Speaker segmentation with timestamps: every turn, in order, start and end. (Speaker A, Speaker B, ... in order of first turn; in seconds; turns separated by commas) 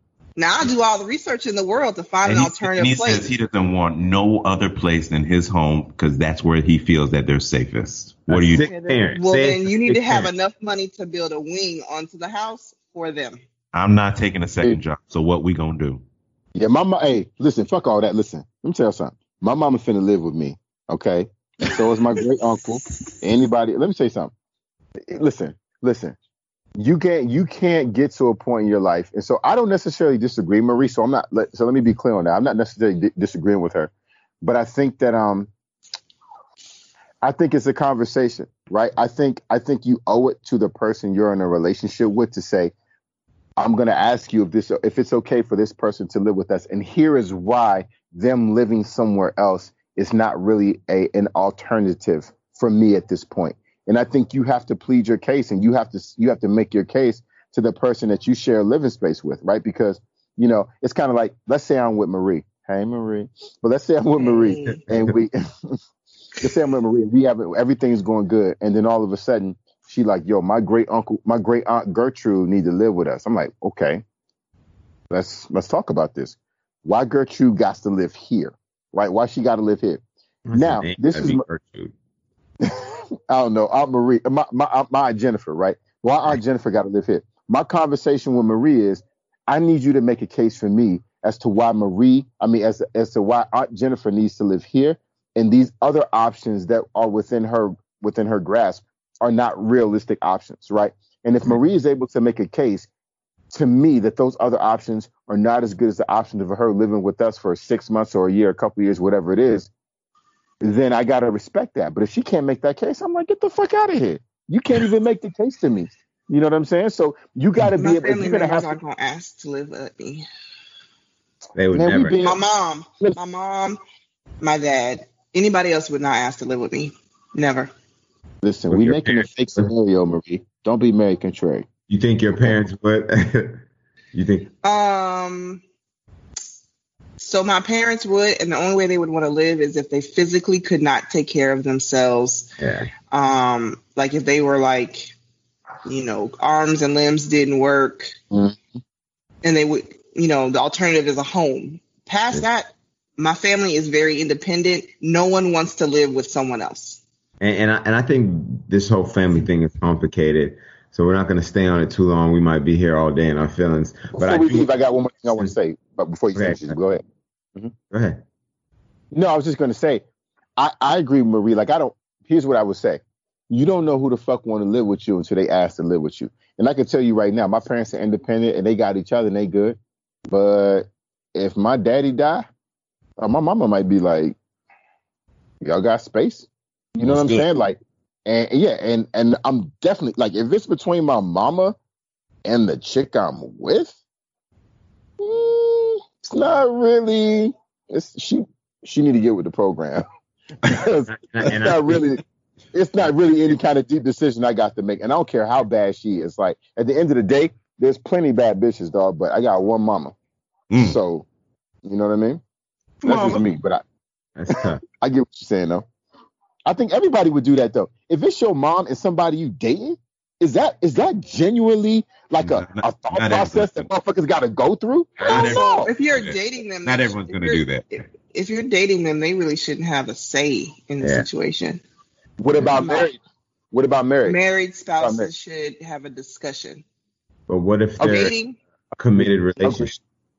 Speaker A: 0.4-3.2, Speaker B: 2.2-8.7, Speaker C: 8.3-10.3, Speaker A: 8.6-13.4, Speaker B: 13.7-16.0, Speaker D: 16.6-24.3, Speaker D: 25.1-26.1, Speaker D: 26.8-33.9, Speaker D: 34.4-35.5, Speaker D: 37.2-42.7, Speaker D: 43.6-65.8, Speaker A: 64.2-64.8, Speaker D: 66.4-74.0, Speaker D: 75.1-80.0, Speaker C: 80.5-81.9, Speaker D: 80.5-81.4, Speaker D: 82.6-102.9, Speaker D: 103.5-109.7, Speaker D: 110.6-118.8, Speaker A: 117.8-120.2, Speaker C: 121.5-122.3, Speaker D: 121.7-122.4, Speaker A: 122.2-123.8, Speaker A: 124.4-127.7, Speaker D: 128.4-131.7, Speaker C: 128.7-129.7, Speaker C: 131.9-134.5, Speaker A: 134.6-135.6, Speaker A: 137.2-142.5, Speaker C: 142.6-142.9, Speaker A: 143.1-145.1, Speaker A: 145.8-148.1, Speaker D: 148.3-148.6, Speaker A: 149.4-157.0, Speaker C: 157.4-164.7, Speaker D: 164.2-167.0, Speaker C: 166.3-166.7, Speaker C: 167.9-168.2, Speaker D: 169.1-170.0, Speaker D: 170.6-179.8, Speaker D: 180.3-182.5, Speaker D: 183.2-184.3, Speaker D: 185.6-191.7, Speaker B: 187.0-187.5, Speaker D: 192.4-194.0, Speaker D: 195.2-200.0, Speaker D: 200.6-202.2, Speaker C: 200.7-202.1, Speaker D: 202.7-210.1, Speaker B: 210.7-211.0, Speaker D: 210.8-211.2, Speaker D: 211.8-212.4, Speaker B: 213.0-213.4, Speaker D: 213.0-213.8, Speaker C: 214.3-214.8, Speaker D: 214.5-215.8, Speaker D: 216.7-225.9, Speaker B: 222.4-223.9, Speaker B: 225.2-228.1, Speaker A: 225.2-227.7, Speaker A: 228.2-231.8, Speaker C: 231.0-231.3, Speaker D: 232.4-233.2, Speaker A: 232.7-233.1, Speaker D: 233.7-234.4, Speaker A: 234.2-236.8, Speaker D: 235.0-235.3, Speaker C: 237.5-238.3, Speaker D: 238.0-238.3, Speaker A: 238.0-238.6, Speaker C: 239.0-240.0, Speaker D: 239.2-239.9